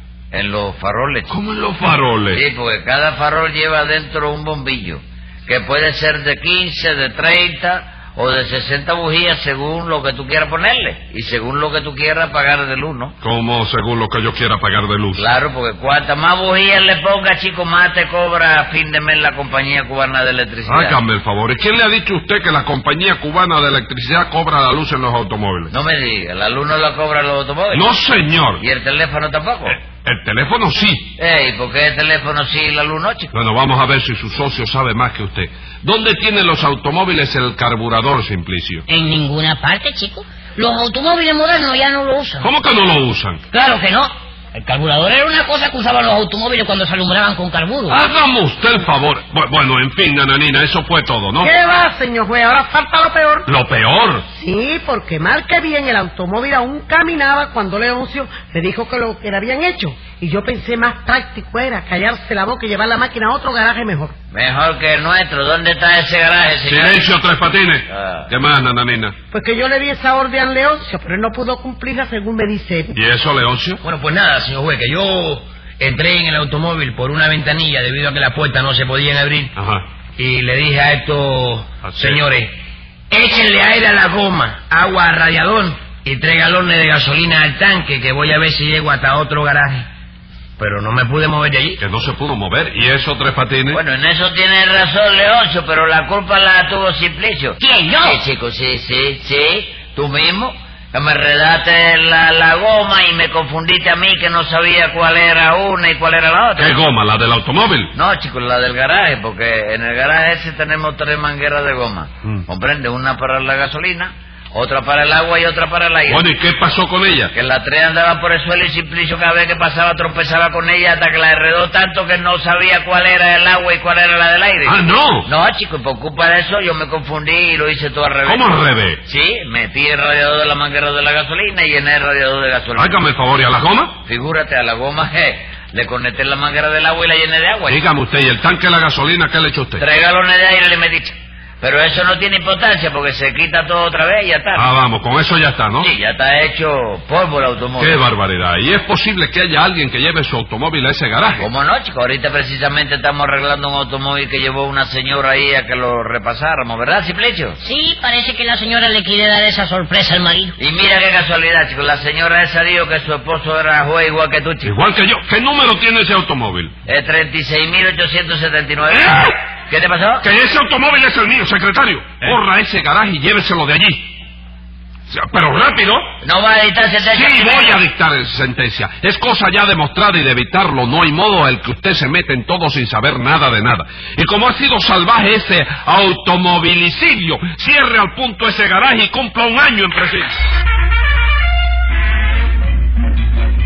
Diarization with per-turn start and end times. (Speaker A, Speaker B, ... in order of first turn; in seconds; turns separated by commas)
Speaker A: 0.3-1.3, Speaker B: 1.3-2.4, Speaker A: 2.3-13.2, Speaker B: 13.2-15.3, Speaker A: 15.2-21.0, Speaker B: 20.7-25.7, Speaker A: 25.7-27.9, Speaker B: 27.7-28.6, Speaker A: 28.6-29.8, Speaker B: 29.7-31.1, Speaker A: 31.2-33.3, Speaker B: 33.3-38.9, Speaker C: 38.9-42.5, Speaker B: 42.4-43.4, Speaker C: 43.5-48.0, Speaker B: 47.9-51.5, Speaker D: 51.4-53.5, Speaker B: 53.5-54.3, Speaker D: 54.3-64.1, Speaker A: 64.3-67.1, Speaker B: 66.6-69.2, Speaker A: 67.9-68.3, Speaker D: 69.3-73.0, Speaker B: 72.9-73.8, Speaker E: 73.8-79.5, Speaker B: 79.5-79.9, Speaker E: 80.2-82.5, Speaker B: 81.9-82.2, Speaker E: 83.1-89.9, Speaker E: 90.6-91.8, Speaker B: 91.8-93.8, Speaker A: 93.7-106.8, Speaker C: 97.6-98.2, Speaker B: 106.6-108.0, Speaker A: 107.9-116.2, Speaker B: 116.1-117.3, Speaker A: 117.3-128.5, Speaker B: 124.7-125.3, Speaker B: 128.2-129.0, Speaker A: 129.1-133.0, Speaker B: 132.8-134.0, Speaker A: 134.1-137.8, Speaker B: 137.7-139.8, Speaker A: 139.8-144.7, Speaker B: 144.6-145.9, Speaker A: 145.8-148.0, Speaker B: 147.8-151.5, Speaker A: 151.4-157.6, Speaker C: 157.6-160.5, Speaker A: 160.6-164.8, Speaker B: 164.6-166.7, Speaker A: 166.9-169.2, Speaker B: 168.9-169.4, Speaker A: 169.7-170.2, Speaker B: 170.2-174.2, Speaker B: 175.1-176.1, Speaker A: 176.2-177.8, Speaker B: 177.0-190.4